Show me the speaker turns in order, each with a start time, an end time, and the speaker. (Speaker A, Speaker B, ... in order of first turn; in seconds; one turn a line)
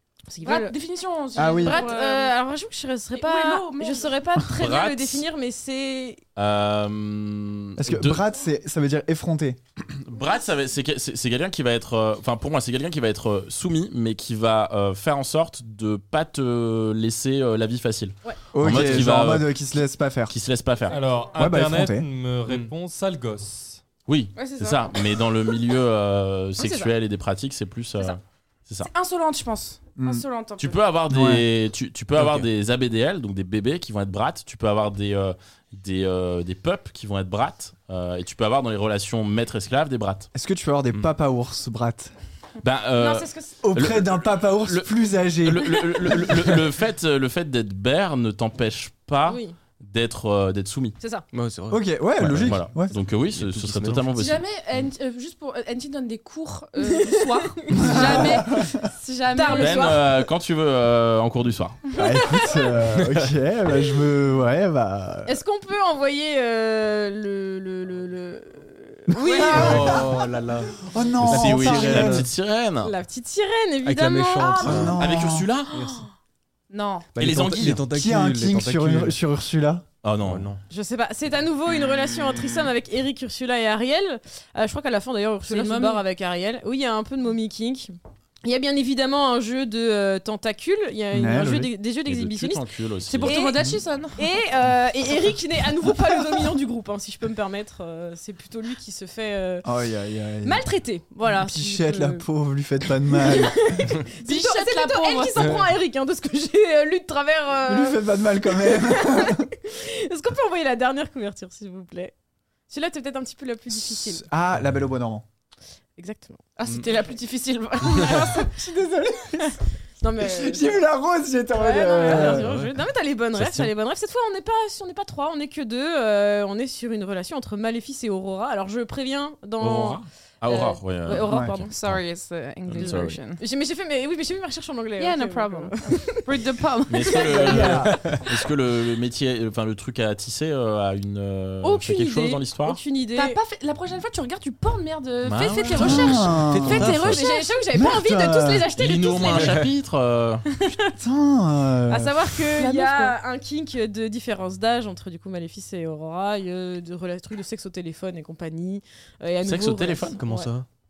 Speaker A: 0.3-0.8
Speaker B: 0.4-2.4
Speaker C: 1.4-1.9
Speaker A: 1.6-6.2
Speaker B: 3.1-4.2
Speaker D: 4.6-5.2
Speaker D: 6.4-8.2
Speaker C: 7.8-9.6
Speaker D: 9.9-19.5
Speaker C: 18.5-20.4
Speaker D: 20.3-21.0
Speaker E: 20.9-23.8
Speaker C: 21.3-22.1
Speaker D: 24.1-28.9
Speaker B: 24.4-25.0
Speaker A: 26.6-26.9
Speaker B: 28.8-30.8
Speaker C: 30.0-30.2
Speaker D: 30.6-40.3
Speaker C: 31.1-31.4
Speaker F: 32.1-32.5
Speaker C: 40.3-42.1
Speaker D: 42.6-51.0
Speaker B: 43.0-43.5
Speaker C: 43.6-46.2
Speaker A: 49.3-49.5
Speaker A: 51.0-51.3
Speaker F: 51.3-54.1
Speaker C: 51.7-52.9
Speaker D: 52.2-54.4
Speaker B: 54.2-60.0
Speaker A: 56.8-58.6
Speaker C: 57.7-58.8
Speaker A: 59.3-60.2
Speaker D: 59.5-61.8
Speaker C: 62.0-65.4
Speaker A: 62.0-62.8
Speaker F: 63.0-63.2
Speaker A: 65.3-70.2
Speaker C: 69.1-70.1
Speaker B: 69.2-70.0
Speaker F: 69.5-72.3
Speaker C: 70.8-72.3
Speaker D: 71.2-72.9
Speaker A: 72.8-74.9
Speaker F: 73.8-75.0
Speaker C: 74.6-75.5
Speaker D: 75.0-75.8
Speaker F: 75.7-76.0
Speaker B: 76.7-77.1
Speaker F: 77.2-79.2
Speaker D: 77.2-77.8
Speaker C: 77.5-79.8
Speaker D: 80.0-80.5
Speaker F: 80.2-80.6
Speaker A: 80.7-92.7
Speaker B: 85.5-86.0
Speaker C: 91.1-91.7
Speaker D: 92.0-93.4
Speaker B: 93.1-94.3
Speaker A: 93.2-99.7
Speaker C: 99.6-100.7
Speaker A: 100.4-102.3
Speaker C: 101.2-103.9
Speaker A: 103.0-112.1
Speaker B: 104.2-105.5
Speaker C: 107.7-109.5
Speaker A: 112.7-114.2
Speaker C: 113.7-115.2
Speaker A: 116.0-116.5
Speaker B: 116.6-118.6
Speaker C: 118.1-119.5
Speaker A: 120.0-120.8
Speaker C: 120.2-122.6
Speaker A: 121.5-131.7
Speaker F: 122.0-122.8
Speaker F: 123.4-123.7
Speaker D: 123.4-123.7
Speaker D: 129.6-132.0
Speaker C: 131.2-131.5
Speaker B: 131.7-133.4
Speaker D: 132.7-133.2
Speaker A: 132.8-136.4
Speaker B: 135.0-137.8
Speaker D: 136.9-142.8
Speaker C: 137.2-138.1
Speaker F: 137.9-138.2
Speaker A: 141.6-143.4
Speaker B: 141.7-142.4
Speaker B: 143.1-146.4
Speaker D: 145.2-146.9
Speaker A: 145.5-149.6
Speaker C: 145.8-147.2
Speaker F: 146.4-147.2
Speaker B: 147.0-147.6
Speaker C: 147.7-148.7
Speaker D: 148.8-150.4
Speaker F: 149.4-149.7
Speaker C: 151.0-152.2
Speaker A: 151.9-160.5
Speaker B: 152.5-153.2
Speaker D: 159.4-160.2
Speaker F: 160.2-160.7